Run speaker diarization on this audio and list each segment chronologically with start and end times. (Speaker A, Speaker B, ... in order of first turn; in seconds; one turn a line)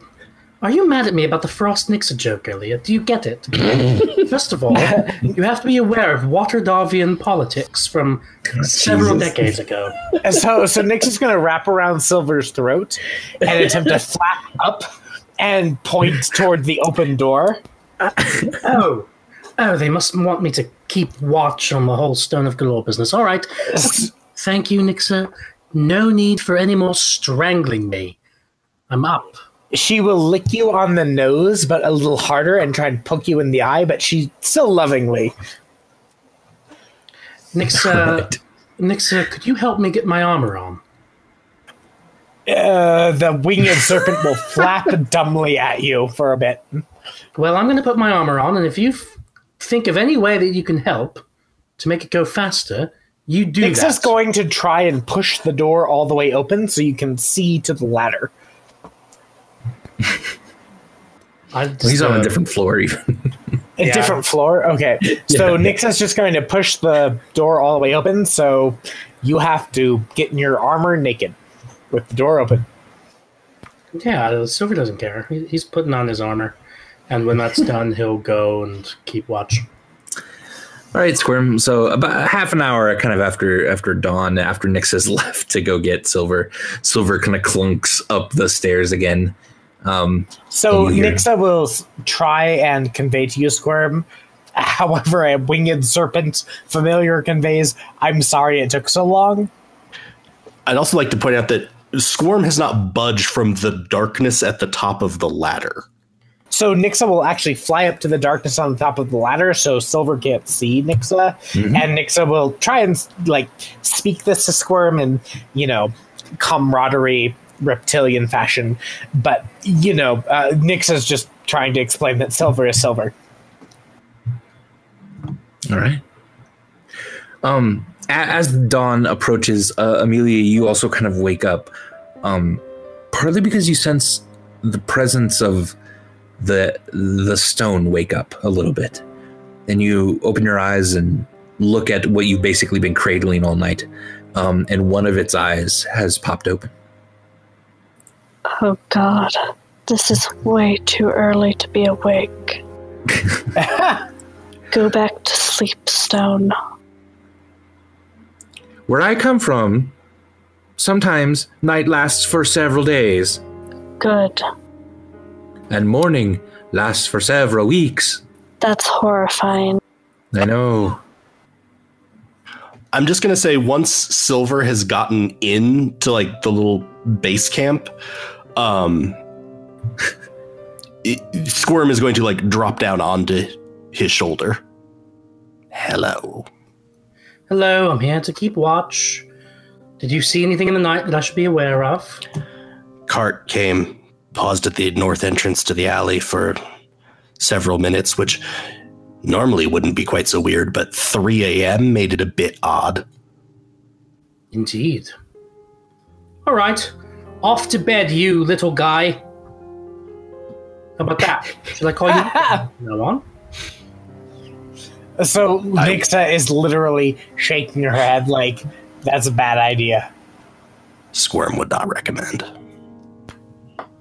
Speaker A: 0.6-10.1
Speaker B: 8.6-9.2
Speaker C: 10.2-14.9
Speaker C: 15.4-17.6
Speaker A: 18.6-28.2
Speaker A: 28.9-29.4
Speaker C: 29.7-35.4
Speaker A: 37.5-40.8
Speaker B: 38.0-38.4
Speaker C: 42.5-46.9
Speaker A: 47.4-51.2
Speaker A: 51.8-54.1
Speaker C: 53.6-58.3
Speaker A: 61.5-62.4
Speaker B: 61.8-63.3
Speaker C: 63.8-71.4
Speaker A: 63.8-64.2
Speaker B: 65.1-65.8
Speaker C: 71.9-72.7
Speaker A: 73.9-76.6
Speaker A: 77.1-79.7
Speaker B: 80.9-91.3
Speaker C: 90.5-99.5
Speaker D: 100.7-105.8
Speaker C: 106.5-123.1
Speaker B: 111.5-111.8
Speaker B: 125.7-126.0
Speaker B: 127.4-131.7
Speaker B: 132.2-135.8
Speaker B: 136.4-139.0
Speaker B: 139.7-146.7
Speaker E: 148.5-152.6
Speaker C: 153.6-154.0
Speaker E: 154.7-156.6
Speaker B: 158.9-159.9
Speaker B: 160.8-163.4
Speaker E: 164.0-164.4
Speaker B: 165.7-168.2
Speaker E: 168.6-169.8
Speaker B: 170.3-171.0
Speaker D: 172.9-177.9
Speaker D: 178.6-179.2
Speaker D: 181.0-184.6
Speaker D: 185.7-186.5
Speaker A: 187.5-189.3
Speaker A: 190.0-192.2
Speaker D: 193.1-196.6
Speaker D: 197.4-198.4
Speaker D: 199.2-203.1
Speaker A: 204.5-205.1
Speaker A: 206.4-209.2
Speaker A: 211.0-213.2
Speaker C: 212.3-212.6
Speaker C: 215.2-220.1
Speaker D: 221.1-222.5